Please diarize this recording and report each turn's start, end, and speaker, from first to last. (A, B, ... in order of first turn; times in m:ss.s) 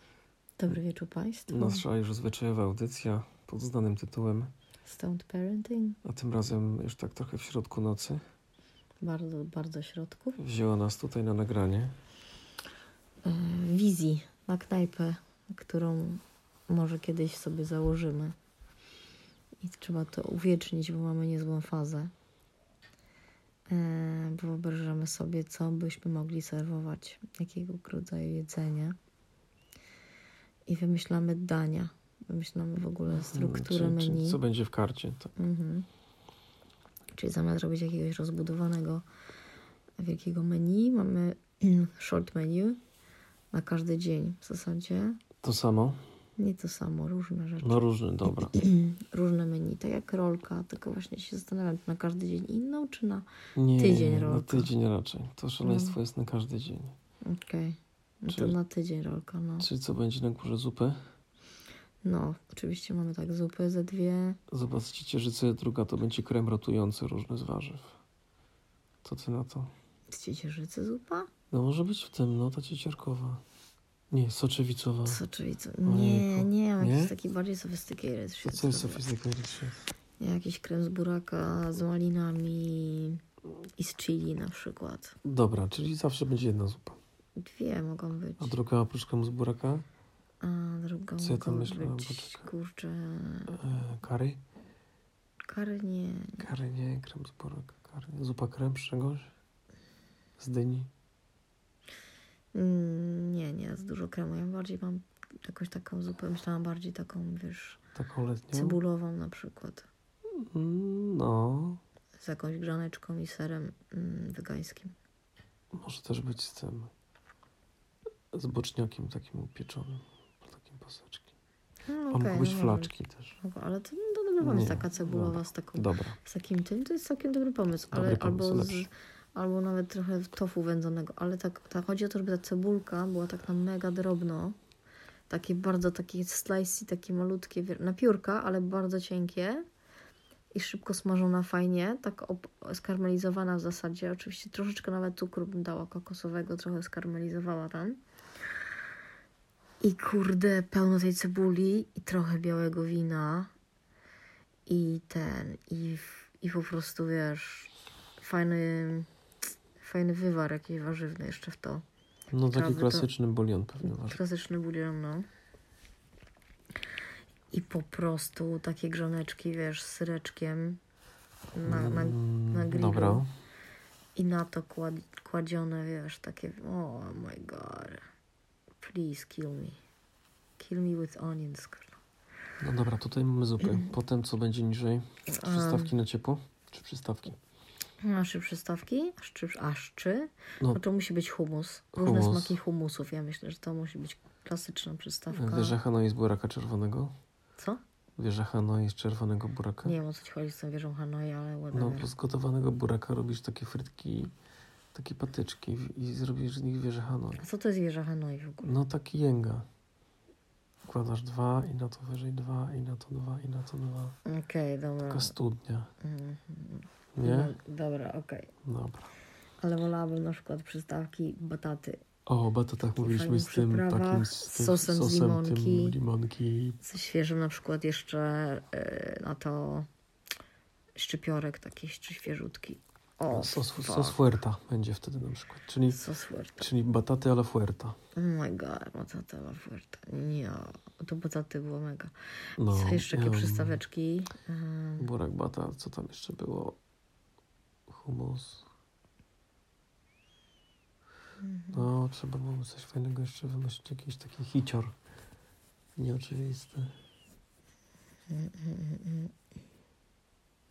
0:00.6-0:01.8 A
0:01.5-0:04.5 B
0:04.9-0:06.0 A
0:06.0-0:08.2 B
0:09.0-0:10.4 A
0:10.4-0:12.0 B
0:13.2-0:18.4 A
0:19.6-0:22.1 A
0:23.7-0:29.0 A
0:30.7-0:34.4 A
0:33.1-0:35.3 B
0:35.4-0:35.9 A
0:37.2-0:39.0 A
0:40.0-0:42.8 A
0:43.5-0:45.2 A
0:45.4-0:46.0 B
0:46.4-0:54.7 A
0:47.6-0:48.6 B
0:53.6-0:57.0 B
0:55.6-0:56.0 A
0:57.2-0:59.7 A
0:58.3-0:58.6 B
0:59.6-1:01.0 B
1:02.0-1:04.4 A
1:04.5-1:08.0 B
1:09.0-1:09.7 B
1:10.1-1:11.3 A
1:11.5-1:13.4 B
1:14.1-1:15.2 B
1:15.1-1:19.1 A
1:15.8-1:17.2 B
1:18.4-1:19.8 B
1:20.2-1:23.2 A
1:23.8-1:25.2 A
1:25.2-1:27.0 B
1:27.4-1:28.6 A
1:28.4-1:29.8 B
1:30.4-1:33.6 A
1:31.2-1:32.5 B
1:33.5-1:34.4 B
1:35.5-1:36.5 A
1:36.4-1:39.3 B
1:40.4-1:40.9 B
1:42.5-1:47.8 A
1:48.0-1:48.8 B
1:48.5-1:49.9 A
1:50.4-1:51.8 B
1:52.2-1:55.0 A
1:55.7-1:56.9 B
1:58.3-2:01.3 B
2:01.9-2:14.6 A
2:02.1-2:03.4 B
2:04.4-2:06.2 B
2:07.9-2:08.9 B
2:15.3-2:19.6 A
2:20.5-2:28.0 A
2:29.8-2:33.5 A
2:34.7-2:39.1 A
2:39.8-2:41.8 A
2:42.3-2:44.2 B
2:42.5-2:43.1 A
2:43.8-2:45.3 A
2:47.5-2:50.8 A
2:51.5-2:53.3 A
2:51.6-2:53.3 B
2:54.2-2:58.0 A
2:58.8-2:59.8 A
3:00.6-3:02.0 A
3:02.6-3:07.4 B
3:03.6-3:03.9 A
3:05.3-3:06.0 A
3:08.0-3:15.8 A
3:10.6-3:10.8 B
3:12.0-3:12.6 B
3:15.3-3:17.1 B
3:18.2-3:20.0 B
3:19.8-3:22.1 A
3:21.7-3:24.3 B
3:24.9-3:27.5 B
3:27.4-3:28.8 A
3:28.6-3:29.7 B
3:30.8-3:34.2 B
3:34.3-3:35.3 A
3:35.1-3:35.9 B
3:36.0-3:38.5 A
3:37.2-3:37.6 B
3:38.6-3:39.1 B
3:39.6-3:42.0 A
3:42.3-3:46.8 B
3:42.8-3:46.0 A
3:46.8-3:49.9 A
3:51.0-3:54.4 A
3:53.3-3:56.0 B
3:55.9-3:56.7 A
3:56.6-3:58.0 B
3:58.2-4:05.1 A
4:02.6-4:03.8 B
4:05.0-4:06.8 B
4:07.9-4:08.7 B
4:11.4-4:11.9 A
4:11.7-4:15.0 B
4:16.0-4:16.9 B
4:18.3-4:19.3 A